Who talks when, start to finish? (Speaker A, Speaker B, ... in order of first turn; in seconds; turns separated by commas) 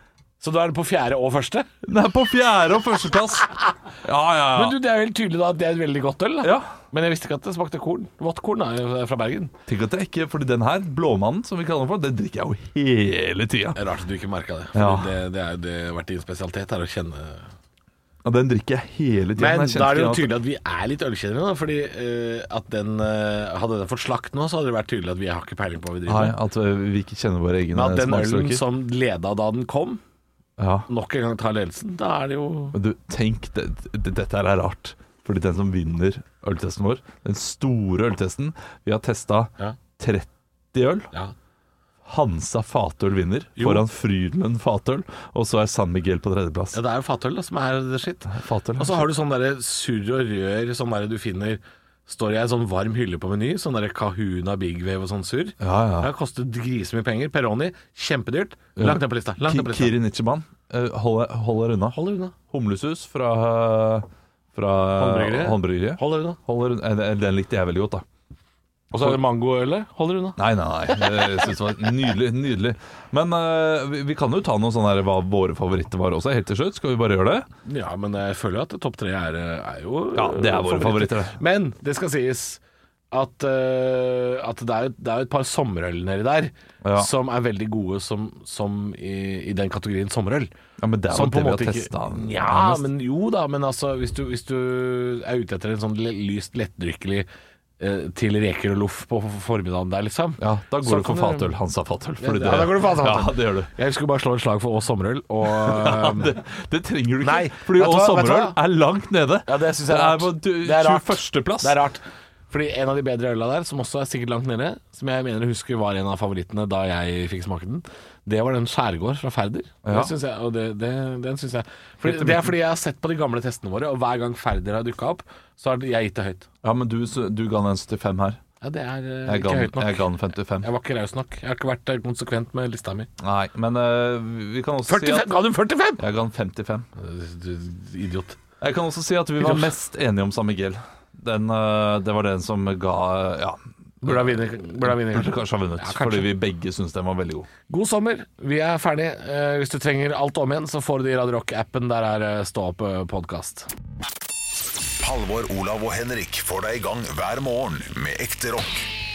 Speaker A: 0.4-1.7, Speaker B: 1.8-4.8, Speaker A: 4.5-9.5, Speaker B: 6.4-6.7, Speaker B: 9.7-13.8, Speaker A: 13.7-17.5, Speaker B: 14.7-15.1, Speaker B: 18.2-20.3, Speaker A: 19.4-26.4, Speaker B: 26.1-28.6, Speaker A: 27.7-30.0, Speaker B: 30.6-30.9, Speaker A: 30.9-32.8, Speaker B: 32.7-41.1, Speaker B: 42.1-46.8, Speaker A: 43.6-43.9, Speaker A: 46.7-60.0, Speaker B: 48.3-49.1, Speaker B: 55.6-56.1, Speaker B: 58.8-62.0, Speaker A: 61.9-62.3, Speaker B: 62.5-68.0, Speaker A: 65.0-66.4, Speaker A: 68.9-71.4, Speaker B: 70.4-77.5, Speaker A: 77.7-82.6, Speaker B: 80.1-81.3, Speaker A: 83.1-90.5, Speaker B: 86.8-87.1, Speaker B: 90.8-92.9, Speaker A: 91.1-97.3, Speaker A: 97.8-101.5, Speaker B: 100.4-103.7, Speaker A: 102.2-106.3, Speaker B: 105.5-111.8, Speaker A: 107.2-108.6, Speaker A: 109.5-126.5, Speaker B: 119.8-120.1, Speaker B: 122.0-122.5, Speaker B: 126.6-128.4, Speaker A: 128.6-130.1, Speaker B: 129.2-130.7, Speaker A: 130.6-133.1, Speaker B: 133.2-135.3, Speaker A: 134.9-136.0, Speaker B: 136.0-136.9, Speaker A: 136.9-138.4, Speaker B: 138.6-144.3, Speaker A: 139.4-139.7, Speaker A: 144.0-146.3, Speaker B: 144.8-147.5, Speaker A: 147.7-153.7, Speaker C: 155.0-158.9